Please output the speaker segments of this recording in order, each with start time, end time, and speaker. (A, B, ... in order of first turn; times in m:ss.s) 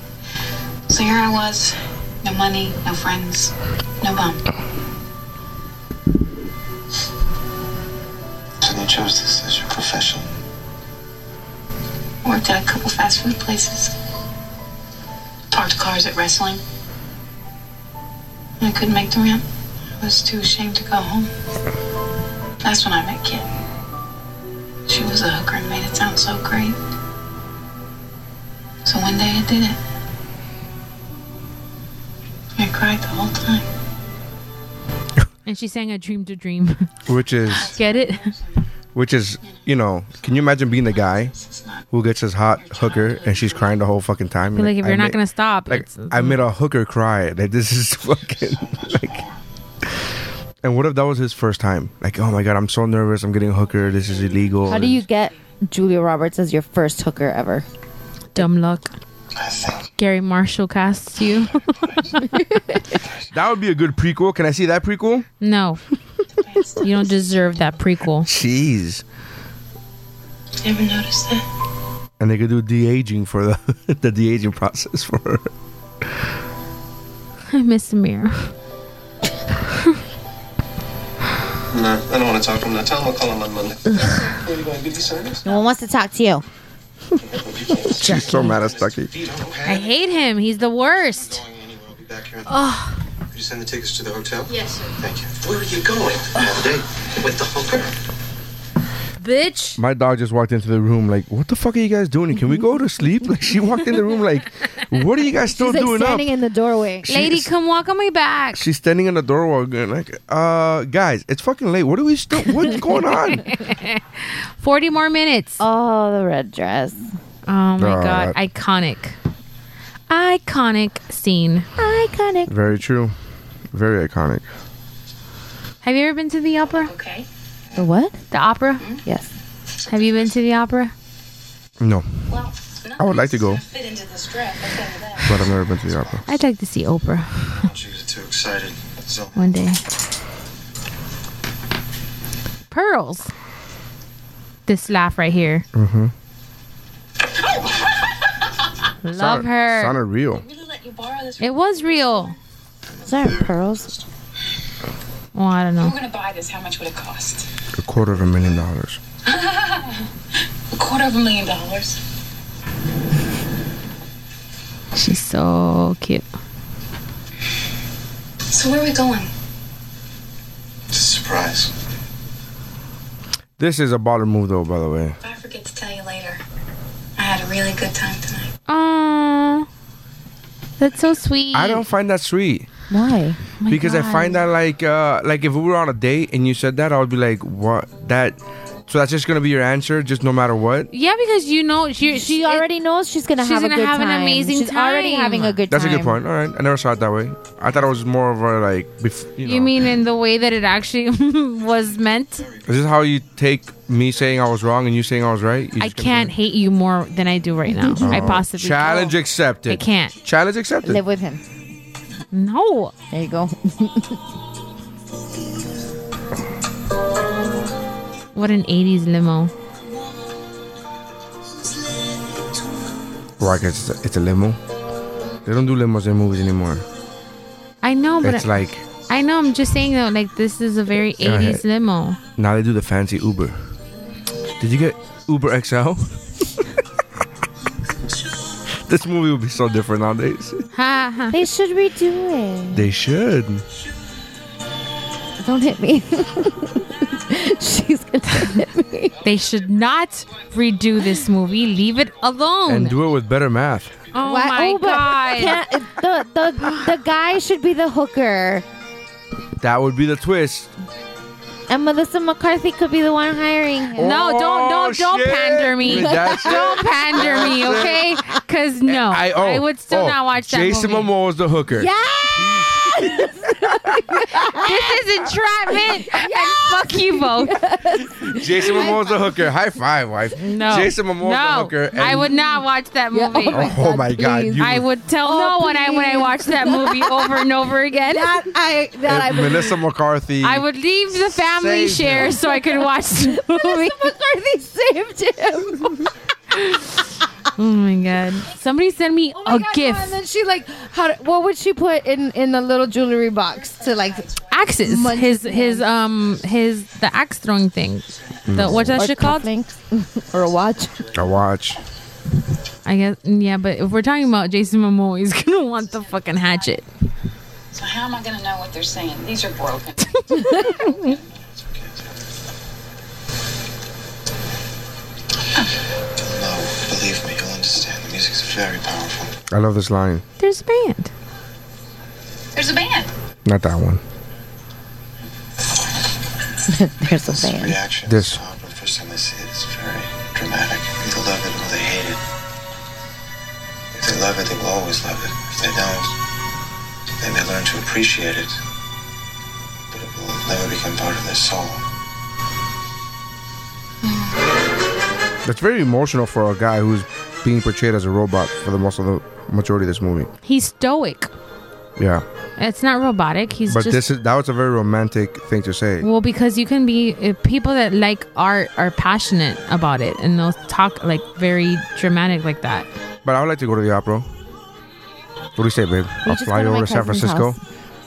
0:00.9-0:04.4 A
0:08.6-0:10.3 B
0:12.2-0:13.9 A
0:15.5-0:16.6 A
0:18.6-0:19.4 A
0:20.0-0:21.3 A
0:22.6-0:23.4 A
0:24.9-0:26.8 A
0:28.8-0:29.8 A
0:32.6-0:33.6 A
0:35.4-0:36.9 C
0:37.1-0:37.8 D
0:37.5-0:38.6 A
0:37.5-0:38.3 C
0:38.9-0:41.3 D
0:40.9-0:41.8 A
0:41.9-0:49.2 D
0:42.6-0:43.8 A
0:44.5-0:46.4 C
0:48.2-0:49.4 B
0:50.6-0:55.0 D
0:53.9-0:54.7 A
0:54.7-0:57.6 E
0:58.3-0:58.9 C
0:59.3-0:59.9 B
1:00.0-1:02.4 C
1:01.8-1:02.1 B
1:03.3-1:05.3 D
1:05.4-1:05.8 C
1:06.4-1:07.5 A
1:06.8-1:08.3 C
1:08.2-1:09.0 D
1:10.6-1:11.4 A
1:12.2-1:15.5 D
1:17.5-1:18.5 C
1:21.7-1:25.5 B
1:24.0-1:24.4 A
1:25.4-1:26.4 E
1:27.2-1:32.7 B
1:28.0-1:28.6 C
1:28.0-1:29.1 D
1:29.6-1:31.4 C
1:32.5-1:33.0 C
1:33.3-1:37.9 B
1:34.5-1:35.0 A
1:39.2-1:39.8 C
1:39.8-1:46.3 D
1:45.5-1:47.2 E
1:47.1-1:47.5 D
1:47.1-1:48.6 C
1:48.5-1:53.4 D
1:52.4-1:55.6 C
1:55.6-1:57.1 E
1:57.5-1:59.2 C
1:57.8-1:58.4 D
2:00.1-2:01.7 C
2:01.8-2:02.5 E
2:02.5-2:03.1 D
2:03.7-2:04.4 D
2:05.8-2:06.9 C
2:06.8-2:07.3 A
2:07.8-2:08.2 E
2:08.3-2:08.8 C
2:09.0-2:09.3 E
2:09.8-2:10.4 B
2:09.9-2:10.9 C
2:11.8-2:12.1 D
2:12.3-2:15.5 A
2:13.0-2:13.6 D
2:15.2-2:16.2 D
2:15.7-2:16.2 B
2:16.3-2:17.6 C
2:17.5-2:19.6 B
2:19.3-2:19.8 C
2:22.7-2:23.3 C
2:24.7-2:25.6 C
2:25.7-2:26.1 D
2:27.5-2:28.1 A
2:29.0-2:30.0 C
2:29.1-2:30.4 D
2:30.4-2:32.4 A
2:31.4-2:32.3 C
2:33.0-2:34.0 B
2:33.0-2:33.9 E
2:35.3-2:35.9 C
2:35.8-2:37.5 A
2:37.8-2:39.0 D
2:39.2-2:40.0 A
2:40.7-2:42.0 A
2:44.9-2:46.2 C
2:48.5-2:49.3 A
2:50.9-2:51.7 B
2:53.6-2:55.2 D
2:55.2-2:56.4 A
2:57.2-2:58.5 A
2:58.7-2:59.7 C
3:00.8-3:01.8 C
3:01.5-3:02.7 D
3:02.9-3:03.4 E
3:03.6-3:04.4 C
3:03.7-3:08.4 D
3:08.9-3:10.9 D
3:10.9-3:12.7 C
3:12.0-3:16.2 E
3:13.4-3:15.6 C
3:15.7-3:19.8 D
3:19.4-3:22.4 C
3:22.4-3:22.8 B
3:22.6-3:26.3 D
3:25.8-3:30.1 C
3:27.7-3:28.3 E
3:28.0-3:31.0 D
3:30.8-3:31.4 E
3:32.3-3:32.9 C
3:33.1-3:34.2 E
3:38.3-3:39.5 C
3:43.4-3:44.6 D
3:45.4-3:46.8 D
3:47.8-3:52.2 C
3:48.2-3:48.8 D
3:51.2-3:51.6 D
3:52.4-3:53.6 D
3:54.6-3:56.2 D
3:58.8-4:00.6 D
4:00.7-4:01.4 C
4:01.3-4:02.9 E
4:02.7-4:03.6 D
4:05.4-4:09.2 E
4:09.2-4:13.0 C
4:12.6-4:13.9 D
4:14.1-4:15.6 C
4:14.2-4:18.6 E
4:19.6-4:20.7 D
4:21.7-4:24.2 E
4:24.0-4:28.1 D
4:24.0-4:31.1 C
4:25.9-4:28.0 E
4:28.8-4:34.5 D
4:31.7-4:35.0 E
4:34.6-4:37.6 C
4:35.7-4:39.5 E
4:38.2-4:42.3 D
4:40.4-4:43.7 C
4:42.0-4:42.6 E
4:43.1-4:49.8 E
4:43.5-4:44.8 D
4:44.6-4:48.3 C
4:49.0-4:50.7 D
4:50.4-4:54.1 C
4:51.3-4:52.4 D
4:52.2-4:56.1 E
4:56.5-4:56.9 C
4:57.6-5:00.1 C
4:59.4-5:05.9 E
5:03.6-5:04.8 A
5:04.5-5:09.5 C
5:08.5-5:09.0 D
5:08.6-5:11.0 E
5:11.1-5:11.8 D
5:12.8-5:16.8 C
5:15.6-5:16.8 A
5:17.7-5:21.2 A
5:20.3-5:20.9 C
5:21.0-5:22.3 B
5:26.2-5:29.4 B
5:29.5-5:30.2 D
5:30.4-5:31.1 C
5:32.5-5:33.1 A
5:33.4-5:34.0 D
5:36.7-5:37.8 E
5:37.1-5:42.2 B
5:38.0-5:38.4 D
5:43.9-5:46.1 B
5:47.2-5:48.6 B
5:49.9-5:51.8 B
5:54.0-5:54.4 A
5:55.4-6:00.3 D
6:00.4-6:01.3 C
6:02.0-6:02.2 D
6:02.6-6:04.0 C
6:03.7-6:06.1 D
6:06.0-6:12.9 C
6:13.2-6:14.3 D
6:15.6-6:17.6 D
6:16.2-6:17.6 E